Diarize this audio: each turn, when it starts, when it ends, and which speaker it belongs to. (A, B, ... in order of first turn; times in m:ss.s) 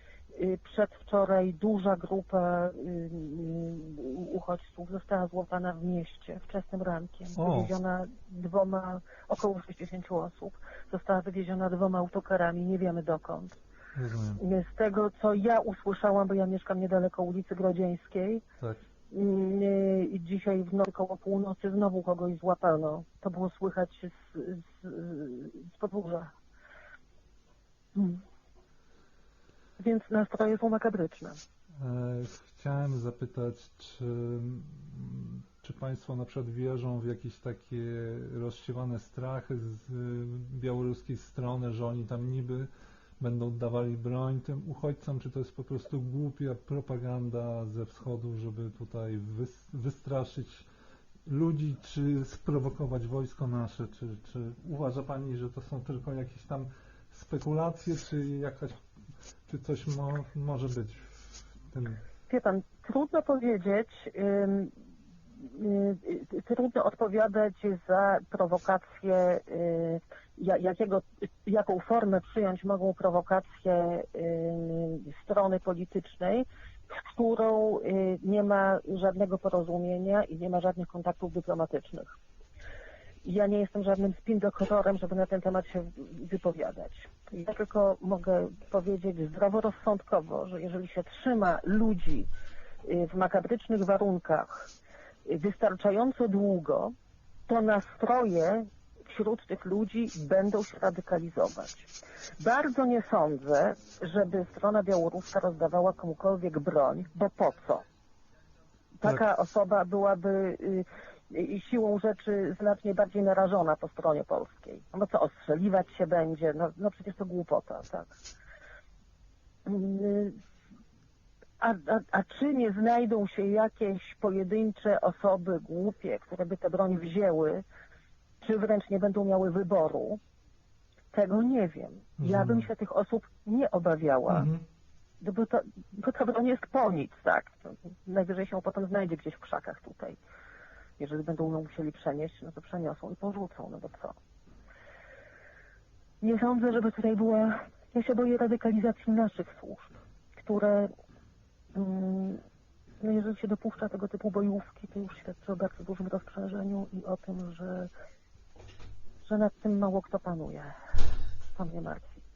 0:00.3-0:13.6 A
0:07.4-0:07.7 B
0:14.0-0:14.4 B
0:14.4-0:18.4 A
0:19.1-0:26.3 A
0:28.0-0:28.2 A
0:29.8-0:31.4 A
0:31.8-0:42.7 B
0:43.2-0:50.7 B
0:51.3-0:58.8 B
0:59.5-1:01.2 B
1:01.7-1:02.0 B
1:02.3-1:04.7 A
1:05.4-1:22.2 A
1:23.2-1:32.3 A
1:32.8-1:34.7 A
1:35.3-1:36.9 A
1:37.5-1:47.8 A
1:49.0-1:58.2 A
1:59.6-2:00.4 A
2:01.6-2:07.6 A
2:08.4-2:10.2 A
2:11.1-2:14.5 A
2:12.2-2:12.7 B
2:14.3-2:14.6 B
2:15.2-2:20.2 A
2:21.0-2:24.2 A
2:26.2-2:30.9 A
2:31.7-2:32.4 A
2:33.0-2:37.9 A
2:39.2-2:40.7 A
2:41.6-2:42.2 A